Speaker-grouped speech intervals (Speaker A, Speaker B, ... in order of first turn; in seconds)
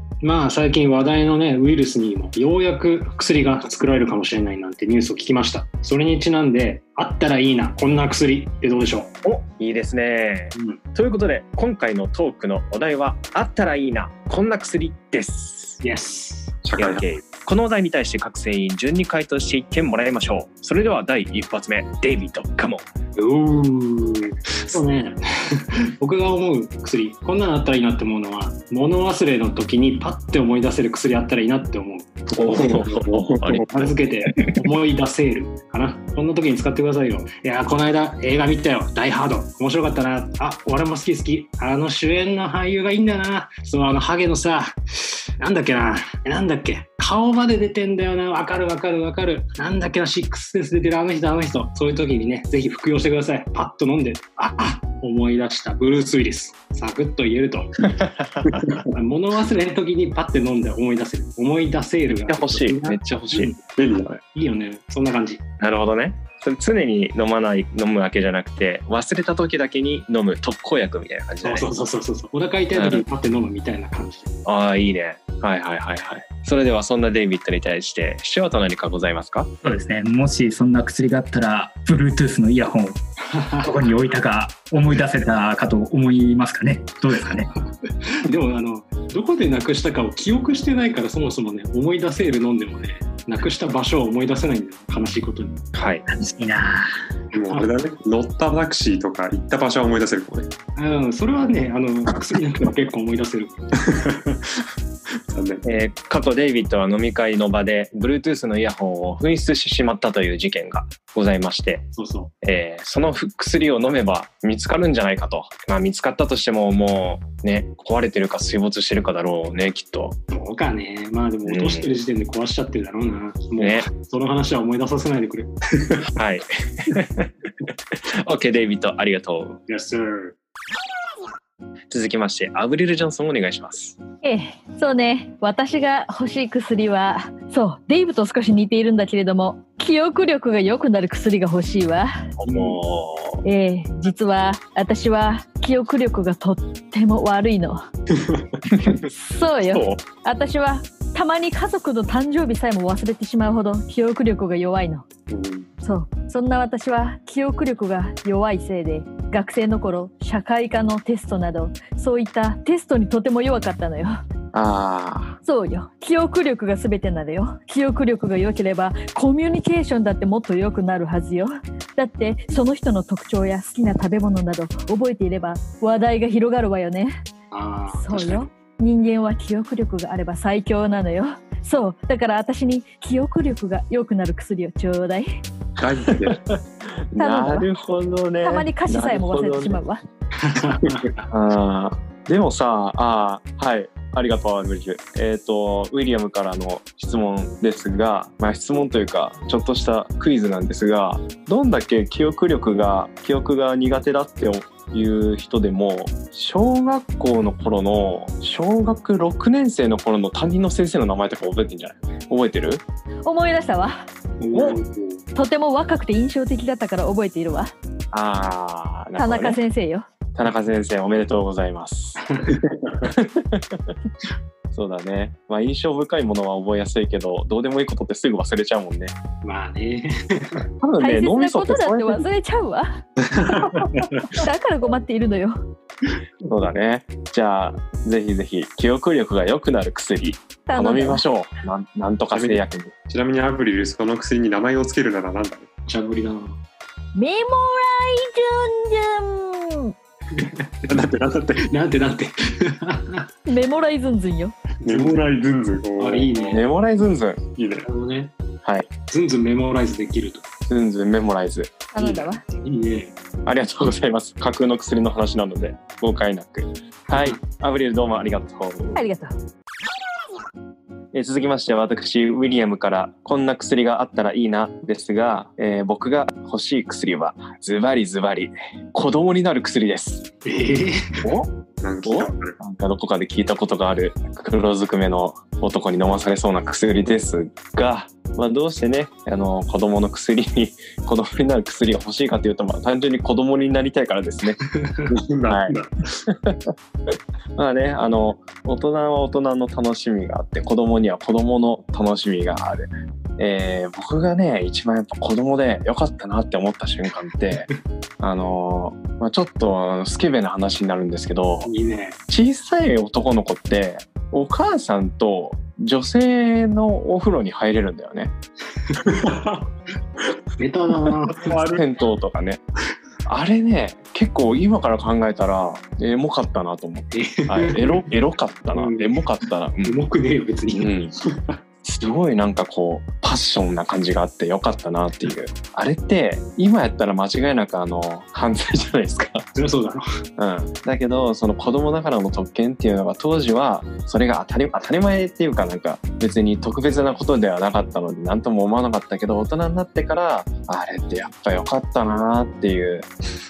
Speaker A: 0.2-9.1, 10.6-10.8, 15.8-16.6, 23.2-33.0, 33.7-57.9, 58.9-63.6, 64.3-65.4, 71.4-74.3, 83.3-83.8, 88.2-95.6, 97.3-97.7, 100.8-103.6, 111.9-112.3, 120.3-126.0, 129.7-130.3, 177.5-178.4, 190.4-191.2, 214.4-215.2, 222.2-222.6, 229.4-230.6, 245.8-246.6, 250.3-250.7, 251.6-253.3, 254.8-255.3, 256.0-256.6, 257.9-258.3, 259.0-260.4, 262.5-263.1, 280.4-281.0, 294.6-295.1, 311.6-312.2, 320.6-321.6, 327.1-328.1, 328.7-329.1, 329.8-330.9, 339.5-340.0
Speaker B: 9.2-15.8, 16.7-22.9, 32.4-33.7, 62.3-63.5, 65.6-71.7, 72.7-73.1, 74.4-79.5, 95.7-96.0, 105.7-111.8, 112.4-120.2, 121.5-122.0, 123.6-123.9, 126.1-127.3, 128.2-129.6, 131.9-134.0, 142.4-143.4, 164.5-165.4, 186.2-186.6, 187.1-189.8, 191.3-212.8, 214.5-214.8, 218.1-219.6, 220.3-222.2, 223.1-223.9, 224.7-229.1, 230.8-232.2, 236.4-242.9, 256.5-257.4, 258.6-258.9, 260.7-262.3, 263.5-269.0, 271.1-280.3, 281.2-281.5, 282.0-294.6, 295.5-295.8, 296.3-296.7, 297.6-307.7, 308.2-311.7, 312.3-318.3, 321.8-322.6, 323.3-330.0, 330.7-331.1, 331.8-339.5, 340.4-353.1
Speaker C: 16.6-17.1, 33.0-33.7, 58.4-58.8, 63.8-64.2, 97.3-100.5, 103.9-104.6, 105.3-105.7, 149.7-150.0, 155.3-155.7, 185.8-186.4, 233.4-234.1, 242.3-245.7, 250.8-251.7, 254.8-256.6, 257.5-257.9, 281.8-282.6, 295.1-296.2, 319.0-319.6, 321.4-321.8, 331.3-331.6
Speaker D: 79.6-83.0, 83.6-87.5, 96.1-96.8
Speaker E: 134.2-142.1, 143.4-147.8, 149.0-155.0, 155.8-164.2, 165.4-177.2, 177.9-185.3, 187.2-187.7, 188.4-190.0, 213.2-214.1, 215.3-217.7, 219.2-220.0, 231.0-232.9, 234.3-235.6, 240.7-241.2, 247.1-249.9, 253.5-254.5, 261.9-262.4, 268.9-269.3